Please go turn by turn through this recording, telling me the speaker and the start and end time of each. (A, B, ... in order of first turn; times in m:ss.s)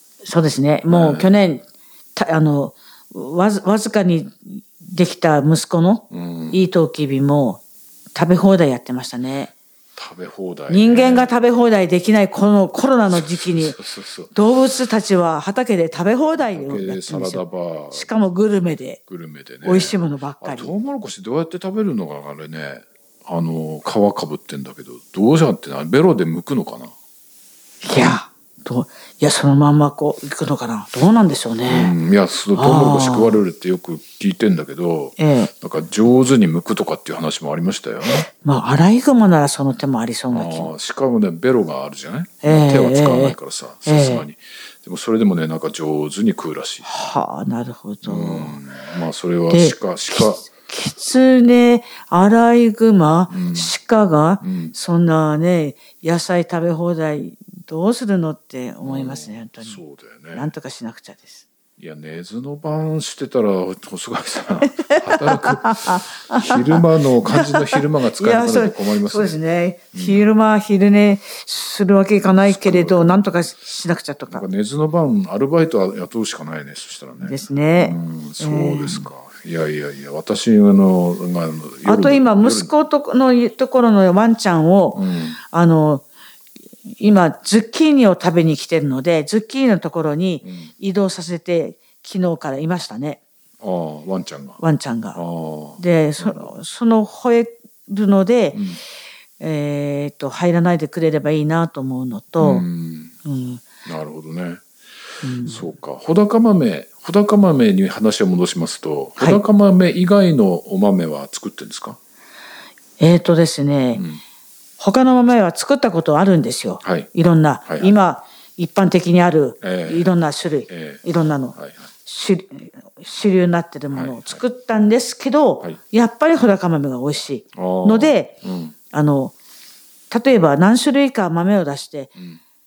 0:00.2-0:01.6 A
0:00.9-0:01.3 B
0:02.2-0:07.6 A
0:06.1-0:06.6 B
0:08.1-0:09.5 A
0:10.0-0:11.3 B
0:10.7-0:13.8 A
0:13.1-0:14.3 B
0:14.3-0:19.0 A
0:16.5-0:18.1 B
0:19.1-0:26.9 B
0:19.6-0:20.7 A
0:27.8-0:31.9 A
0:31.7-0:38.3 B
0:32.5-0:33.4 A
0:35.2-0:35.5 A
0:38.2-0:40.7 A
0:40.3-0:46.9 B
0:42.4-0:44.2 A
0:46.8-0:48.6 A
0:48.0-0:50.4 B
0:49.5-0:59.8 A
0:53.3-0:53.7 B
0:54.4-0:54.7 B
0:58.8-1:00.5 B
1:00.3-1:01.4 A
1:01.8-1:09.4 B
1:04.7-1:14.4 A
1:09.9-1:10.2 B
1:12.4-1:13.2 B
1:14.3-1:22.7 B
1:17.2-1:19.1 A
1:21.8-1:26.0 A
1:24.9-1:25.4 B
1:27.0-1:33.2 A
1:30.4-1:30.7 B
1:33.6-1:34.6 B
1:34.6-1:35.2 A
1:35.1-1:36.5 B
1:35.8-1:38.6 A
1:38.5-1:38.8 B
1:39.4-1:42.6 A
1:42.4-1:43.1 B
1:43.2-1:43.6 A
1:43.8-1:44.6 B
1:45.2-1:45.6 A
1:45.4-1:52.0 B
1:53.0-1:54.0 A
1:53.9-1:54.2 B
1:54.8-2:08.3 A
1:56.8-1:57.1 B
1:57.7-1:57.9 B
1:59.6-2:00.1 B
2:00.7-2:01.0 B
2:01.5-2:01.8 B
2:03.9-2:04.4 B
2:07.5-2:08.8 B
2:08.9-2:09.3 A
2:10.1-2:12.1 A